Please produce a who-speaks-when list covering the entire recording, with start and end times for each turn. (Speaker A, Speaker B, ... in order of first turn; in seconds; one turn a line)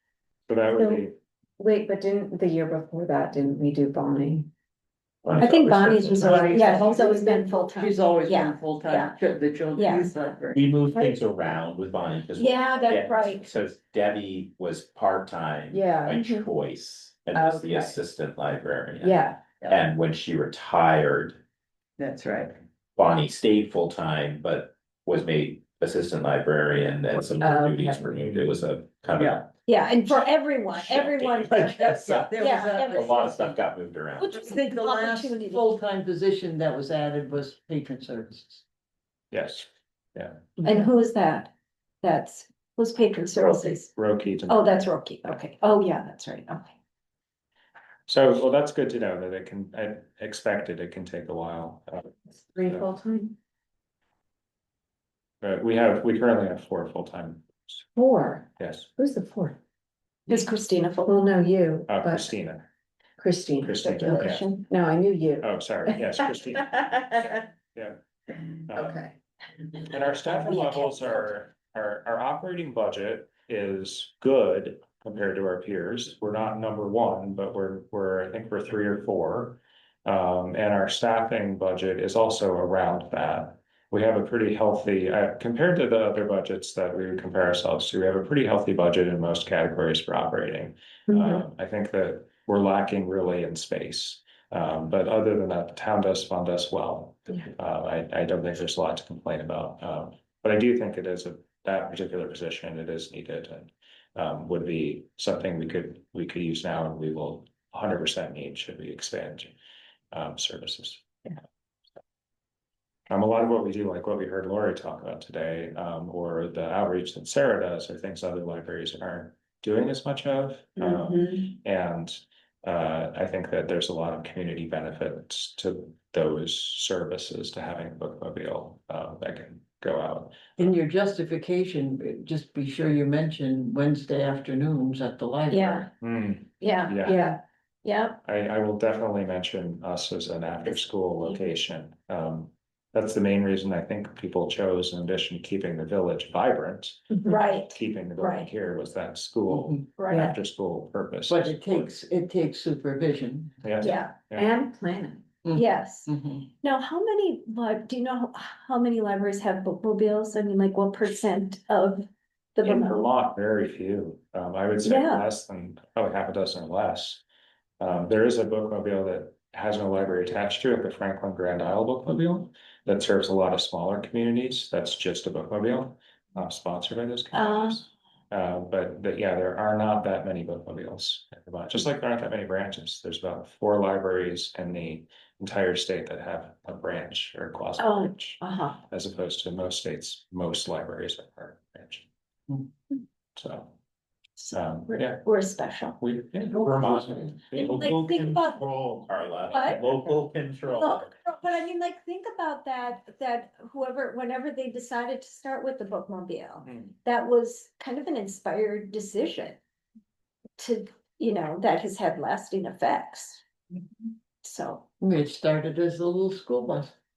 Speaker A: 0.5-1.2
Speaker B: 0.7-1.1
Speaker B: 1.6-4.5
Speaker C: 5.2-6.8
Speaker D: 5.4-9.2
Speaker E: 6.0-10.6
Speaker B: 6.9-7.5
Speaker D: 9.8-10.1
Speaker C: 10.5-21.4
Speaker D: 12.4-13.5
Speaker B: 15.7-16.5
Speaker B: 17.3-18.0
Speaker B: 19.0-19.4
Speaker E: 19.6-19.9
Speaker E: 22.0-22.6
Speaker C: 23.0-29.5
Speaker B: 27.4-28.2
Speaker E: 29.2-29.5
Speaker D: 29.7-33.4
Speaker C: 30.9-34.4
Speaker E: 31.6-33.5
Speaker D: 34.2-35.7
Speaker E: 34.3-38.6
Speaker A: 39.3-40.5
Speaker D: 40.6-41.5
Speaker D: 42.0-43.9
Speaker A: 44.0-44.6
Speaker D: 44.5-46.8
Speaker A: 48.1-52.9
Speaker B: 52.3-53.4
Speaker A: 55.4-57.5
Speaker B: 57.9-59.6
Speaker A: 58.6-58.9
Speaker D: 60.3-61.2
Speaker B: 61.0-62.3
Speaker A: 61.9-62.7
Speaker B: 63.2-66.4
Speaker A: 63.6-64.5
Speaker D: 64.1-64.6
Speaker A: 65.4-68.0
Speaker A: 68.7-69.0
Speaker B: 68.7-69.2
Speaker A: 69.8-109.5
Speaker D: 70.6-70.9
Speaker A: 110.1-111.3
Speaker A: 113.1-130.5
Speaker E: 130.6-135.9
Speaker D: 135.5-135.9
Speaker A: 136.0-137.3
Speaker D: 136.6-138.2
Speaker A: 138.2-151.9
Speaker D: 147.2-148.5
Speaker E: 149.5-150.3
Speaker D: 149.9-150.3
Speaker E: 151.2-153.6
Speaker A: 153.6-154.5
Speaker D: 153.8-154.2
Speaker B: 154.3-155.2
Speaker E: 155.4-156.4
Speaker D: 155.5-163.1
Speaker A: 162.6-167.2
Speaker D: 164.8-165.3
Speaker A: 167.8-192.1
Speaker D: 177.3-177.8
Speaker D: 187.8-188.8
Speaker A: 193.4-193.8
Speaker D: 194.4-196.0
Speaker A: 194.5-195.2
Speaker A: 196.0-196.9
Speaker E: 196.5-197.4
Speaker C: 196.6-201.1
Speaker D: 197.5-198.7
Speaker A: 198.7-199.1
Speaker D: 199.5-199.8
Speaker D: 200.8-209.6
Speaker D: 210.6-213.4
Speaker D: 214.4-214.9
Speaker E: 215.0-216.9